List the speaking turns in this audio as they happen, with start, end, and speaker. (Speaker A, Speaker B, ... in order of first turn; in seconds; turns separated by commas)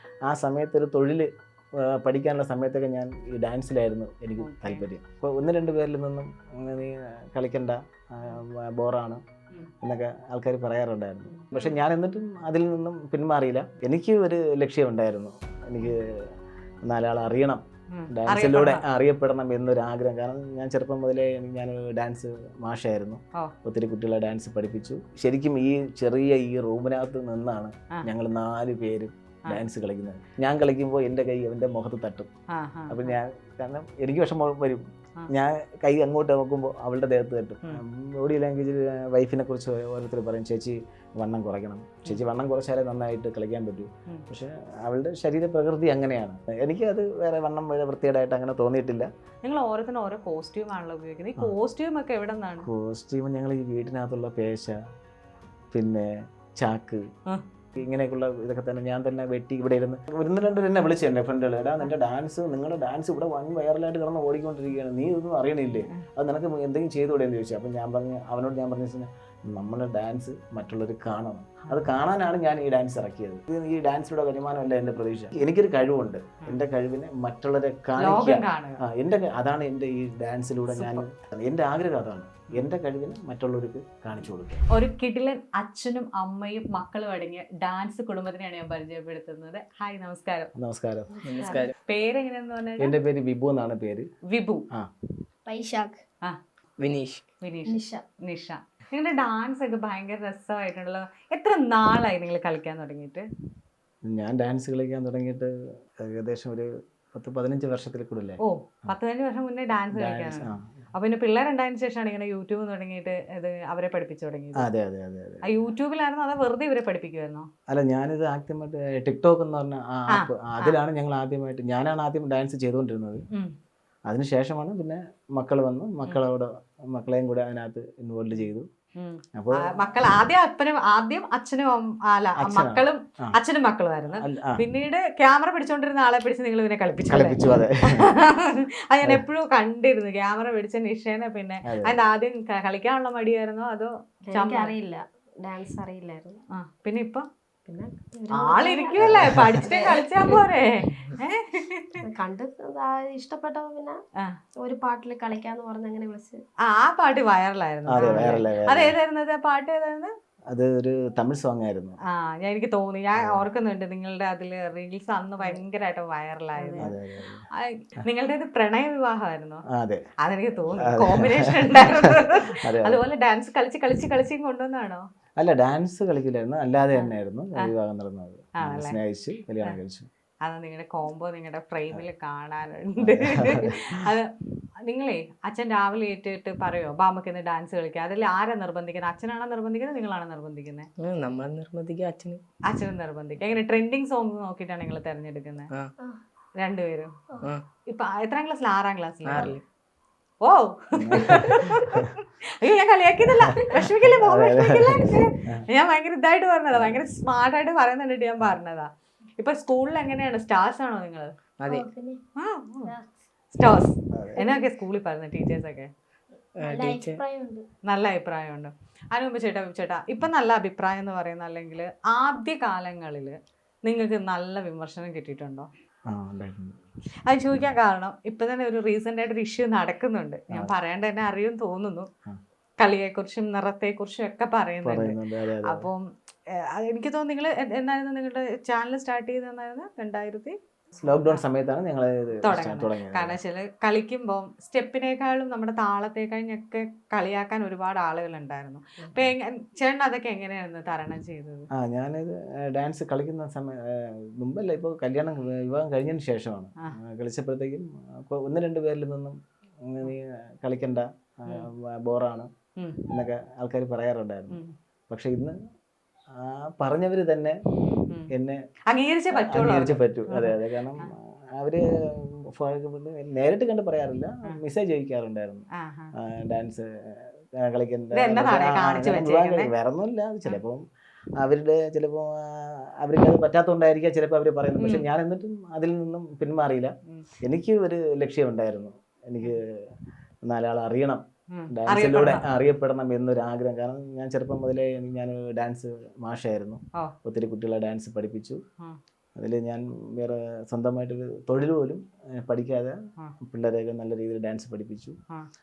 Speaker A: 0.3-1.3, Speaker A: 1.9-9.2, Speaker B: 4.4-4.9, Speaker A: 9.8-16.3, Speaker B: 11.5-11.8, Speaker A: 16.9-32.3, Speaker B: 17.9-18.8, Speaker B: 32.5-33.2, Speaker A: 32.9-49.1, Speaker B: 49.4-52.7, Speaker A: 52.6-54.8, Speaker A: 55.7-57.0, Speaker A: 57.8-84.6, Speaker B: 78.0-78.8, Speaker B: 80.7-81.0, Speaker B: 84.7-90.5, Speaker A: 90.5-91.1, Speaker C: 91.1-91.7, Speaker D: 91.2-91.7, Speaker B: 91.8-92.9, Speaker A: 92.8-94.1, Speaker B: 94.3-94.7, Speaker C: 95.5-96.0, Speaker D: 96.8-97.2, Speaker B: 97.4-103.2, Speaker C: 97.7-98.0, Speaker A: 104.1-108.9, Speaker B: 108.4-114.7, Speaker A: 109.9-110.8, Speaker A: 114.6-115.6, Speaker B: 115.4-117.5, Speaker A: 117.7-123.2, Speaker B: 120.1-120.8, Speaker A: 124.1-128.7, Speaker B: 128.3-144.7, Speaker A: 129.4-129.7, Speaker A: 132.4-133.3, Speaker A: 134.1-134.6, Speaker A: 137.1-138.1, Speaker A: 141.7-142.0, Speaker C: 144.3-146.4, Speaker B: 146.5-147.3, Speaker C: 147.7-150.4, Speaker B: 148.3-152.0, Speaker A: 149.0-149.6, Speaker C: 152.0-154.0, Speaker C: 154.6-156.4, Speaker B: 156.7-160.1, Speaker A: 157.9-158.9, Speaker A: 160.5-162.0, Speaker B: 162.1-166.9, Speaker C: 166.6-166.9, Speaker A: 166.8-167.4, Speaker B: 167.6-169.6, Speaker A: 169.7-170.0, Speaker B: 170.2-175.1, Speaker A: 170.8-173.0, Speaker A: 175.4-180.1, Speaker B: 176.9-177.7, Speaker B: 178.6-179.0, Speaker B: 180.4-184.3, Speaker A: 183.0-183.9, Speaker B: 184.8-190.9, Speaker D: 191.0-192.4, Speaker B: 192.7-195.7, Speaker B: 196.6-197.2, Speaker B: 197.9-199.6, Speaker D: 199.2-199.6, Speaker B: 200.4-211.3, Speaker A: 201.0-202.1, Speaker A: 203.3-205.6, Speaker A: 206.7-207.0, Speaker D: 211.6-211.9, Speaker C: 211.7-212.2, Speaker B: 212.4-212.9, Speaker B: 213.5-215.9, Speaker A: 214.1-214.4, Speaker C: 214.4-214.6, Speaker D: 216.6-217.2, Speaker C: 216.6-217.6, Speaker B: 217.9-225.7, Speaker A: 226.1-226.8, Speaker B: 227.2-232.1, Speaker B: 232.8-241.4, Speaker A: 234.8-235.9, Speaker A: 241.0-243.3, Speaker B: 242.4-251.7, Speaker A: 251.8-259.4, Speaker A: 259.9-262.5, Speaker A: 263.1-265.5, Speaker A: 266.4-267.6, Speaker A: 268.3-268.6, Speaker B: 268.9-271.1, Speaker A: 269.3-275.6, Speaker B: 275.8-276.1, Speaker A: 276.2-280.8, Speaker B: 278.1-279.7, Speaker A: 281.4-289.7, Speaker B: 284.8-285.1, Speaker A: 290.4-298.6, Speaker B: 291.5-292.4, Speaker A: 299.4-305.2